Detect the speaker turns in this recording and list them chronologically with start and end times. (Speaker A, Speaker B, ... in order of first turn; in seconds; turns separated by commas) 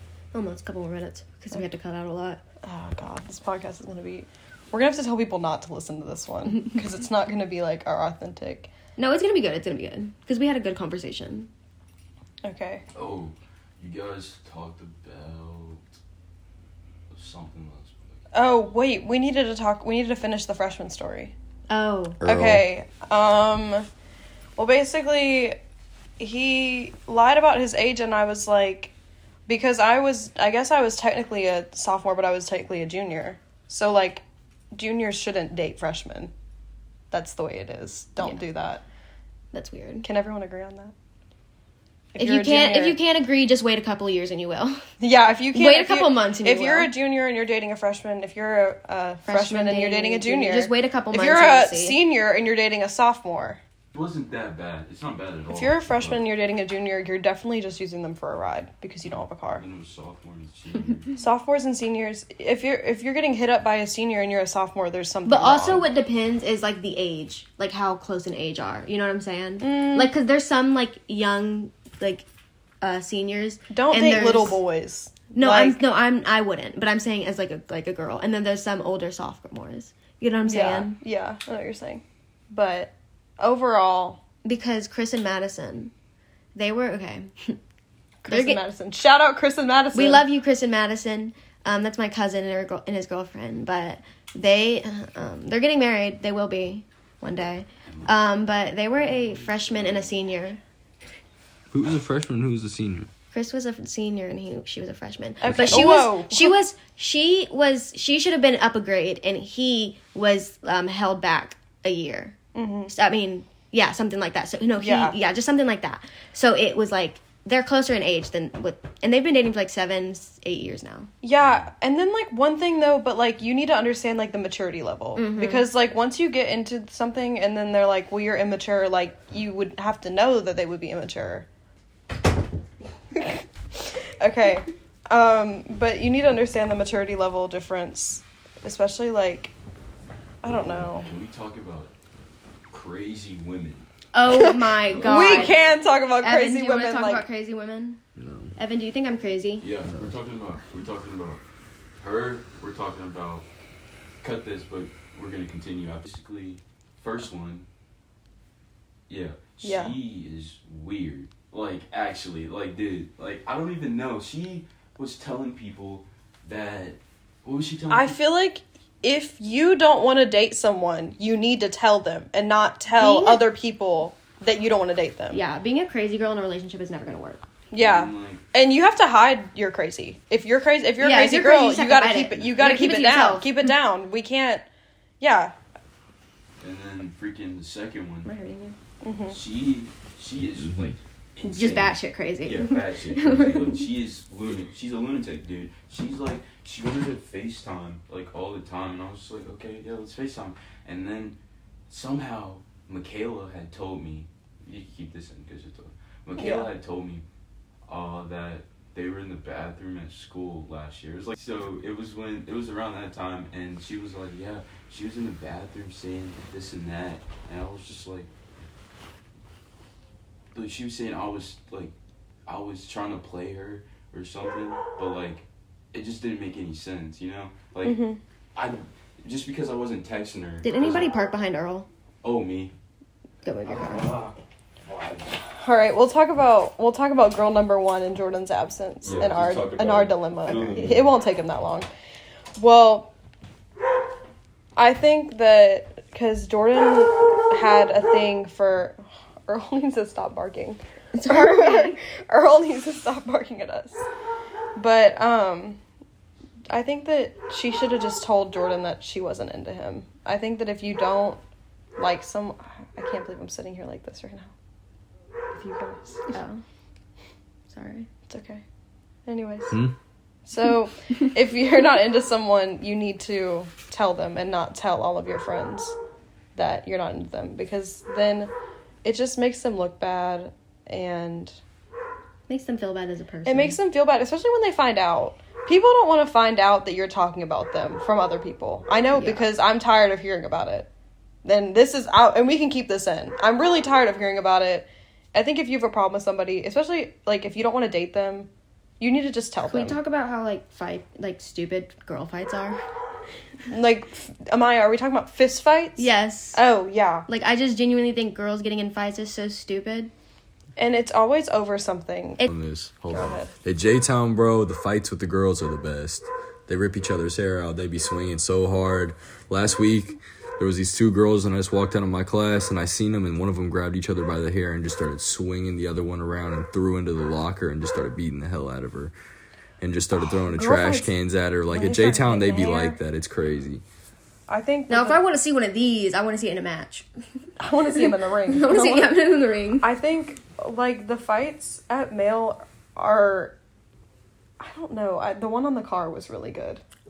Speaker A: 0.3-2.4, Speaker B: 2.6-8.7, Speaker A: 9.0-11.5, Speaker B: 12.4-12.8, Speaker C: 12.9-15.8, Speaker C: 17.1-18.2, Speaker B: 18.3-21.3, Speaker A: 21.7-22.2, Speaker D: 22.2-22.6, Speaker B: 22.2-23.9, Speaker B: 24.6-25.6, Speaker B: 26.2-28.9, Speaker B: 29.5-34.2, Speaker B: 34.7-36.3, Speaker B: 37.1-38.8, Speaker A: 39.5-40.1, Speaker B: 40.0-40.9, Speaker B: 42.1-43.0, Speaker A: 42.2-44.8, Speaker B: 45.0-53.6, Speaker A: 45.5-46.9, Speaker A: 49.2-52.0, Speaker C: 53.9-56.2, Speaker B: 55.5-59.6, Speaker C: 59.5-61.2, Speaker B: 61.2-65.8, Speaker A: 65.2-72.3, Speaker B: 69.6-70.1, Speaker A: 72.8-74.6, Speaker B: 73.7-75.8, Speaker A: 75.3-81.0, Speaker B: 80.5-84.2, Speaker A: 84.4-85.9, Speaker A: 86.5-87.6, Speaker B: 88.2-90.3, Speaker A: 88.3-88.6, Speaker A: 89.9-100.6, Speaker C: 99.2-100.1, Speaker D: 101.7-103.1, Speaker A: 103.3-112.3, Speaker B: 105.4-106.6, Speaker D: 105.5-105.9, Speaker B: 112.5-112.9, Speaker A: 112.9-121.1, Speaker B: 114.8-115.2, Speaker B: 121.2-131.5, Speaker C: 121.4-121.7, Speaker A: 125.2-125.7, Speaker B: 133.2-139.5, Speaker B: 140.4-141.1, Speaker C: 140.4-141.9, Speaker C: 142.7-143.9, Speaker A: 144.1-145.6, Speaker B: 144.3-147.2, Speaker C: 145.0-145.4, Speaker A: 146.2-148.0, Speaker D: 148.2-148.6, Speaker A: 148.6-149.7, Speaker C: 149.6-151.4, Speaker D: 149.8-150.2, Speaker C: 152.0-153.4, Speaker C: 154.2-157.7, Speaker C: 159.1-168.2, Speaker B: 159.6-160.0, Speaker B: 167.9-175.4, Speaker A: 172.9-173.5, Speaker A: 175.3-177.4, Speaker B: 177.7-184.7, Speaker C: 177.8-178.4, Speaker A: 181.0-183.5, Speaker B: 185.2-185.6, Speaker C: 186.6-188.3, Speaker A: 188.2-188.7, Speaker B: 189.0-189.4, Speaker C: 189.3-201.4, Speaker A: 191.4-193.8, Speaker C: 201.9-207.2, Speaker B: 206.4-206.7, Speaker C: 207.8-218.3, Speaker C: 220.5-221.9, Speaker C: 222.5-228.0, Speaker B: 227.8-228.2, Speaker C: 228.6-231.1, Speaker A: 230.6-231.9, Speaker C: 232.2-232.7, Speaker A: 233.4-234.1, Speaker C: 233.7-234.3, Speaker C: 234.9-235.2, Speaker B: 235.6-241.9, Speaker C: 239.0-241.2, Speaker B: 242.6-243.1, Speaker B: 244.8-254.1, Speaker A: 251.2-252.0, Speaker B: 254.8-255.8, Speaker B: 256.7-261.4, Speaker B: 262.0-264.5, Speaker B: 265.5-266.4, Speaker A: 266.3-266.6, Speaker A: 267.7-268.1, Speaker B: 268.3-268.6, Speaker B: 269.3-269.7, Speaker D: 269.7-269.9, Speaker B: 270.4-276.0, Speaker B: 276.6-278.5, Speaker B: 279.0-281.6, Speaker A: 282.5-283.8, Speaker B: 283.4-290.9, Speaker A: 289.1-289.5, Speaker B: 291.4-298.5, Speaker B: 299.0-300.0, Speaker A: 299.6-302.8, Speaker B: 303.7-307.3, Speaker A: 306.0-306.6, Speaker A: 307.3-310.1, Speaker B: 310.8-312.4, Speaker D: 312.4-329.1, Speaker B: 313.1-313.5, Speaker D: 329.8-333.8, Speaker B: 330.2-331.1, Speaker B: 331.7-333.0, Speaker B: 334.5-335.2, Speaker A: 334.9-337.1, Speaker B: 337.6-339.1, Speaker A: 338.5-339.9, Speaker B: 339.8-343.6, Speaker B: 344.6-346.8